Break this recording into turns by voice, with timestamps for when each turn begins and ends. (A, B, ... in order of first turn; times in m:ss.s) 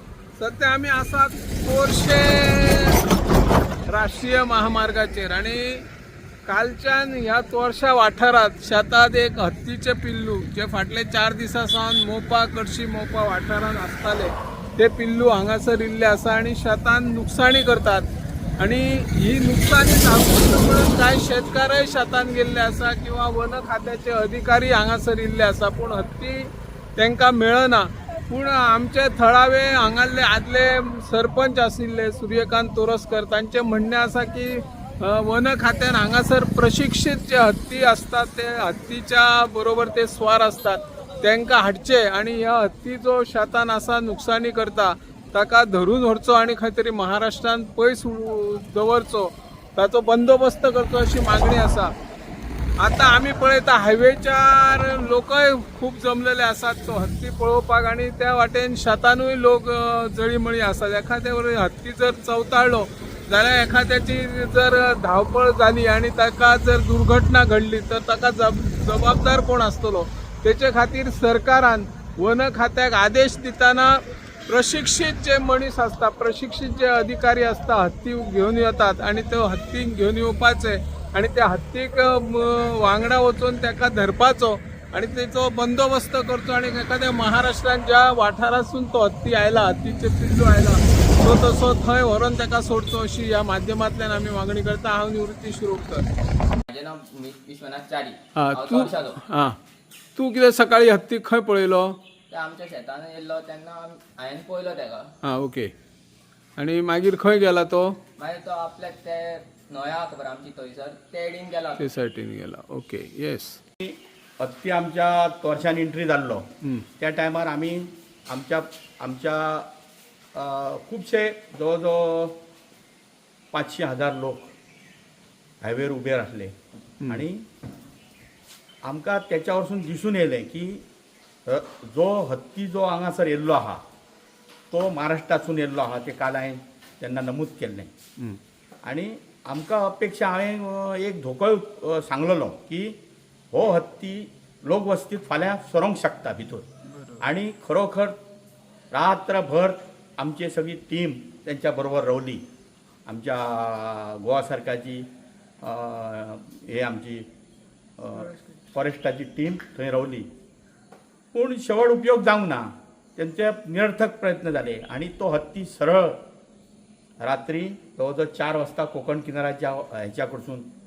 0:00.4-0:03.0 A
0:03.9-0:05.8 A
0:06.4-0:18.1 A
0:18.6-0:51.9 A
0:52.8-1:36.1 A
1:36.7-1:39.2 B
1:38.4-1:39.6 A
1:40.2-1:42.0 A
1:42.3-1:45.1 B
1:45.2-1:45.7 A
1:46.6-1:48.0 A
1:48.2-1:51.8 B
1:51.8-1:53.6 A
1:53.8-1:59.7 C
2:00.4-2:02.4 C
2:03.5-2:04.5 C
2:05.6-2:06.5 C
2:07.0-2:07.3 A
2:07.1-2:07.4 C
2:08.8-2:10.8 C
2:11.5-2:13.8 C
2:14.7-2:17.9 C
2:18.8-2:23.0 C
2:23.5-2:26.7 C
2:26.9-2:27.3 A
2:27.2-2:28.2 C
2:28.9-2:32.4 C
2:33.1-2:35.1 C
2:35.6-2:37.3 C
2:38.0-2:40.3 C
2:41.3-2:46.2 C
2:47.2-2:50.7 C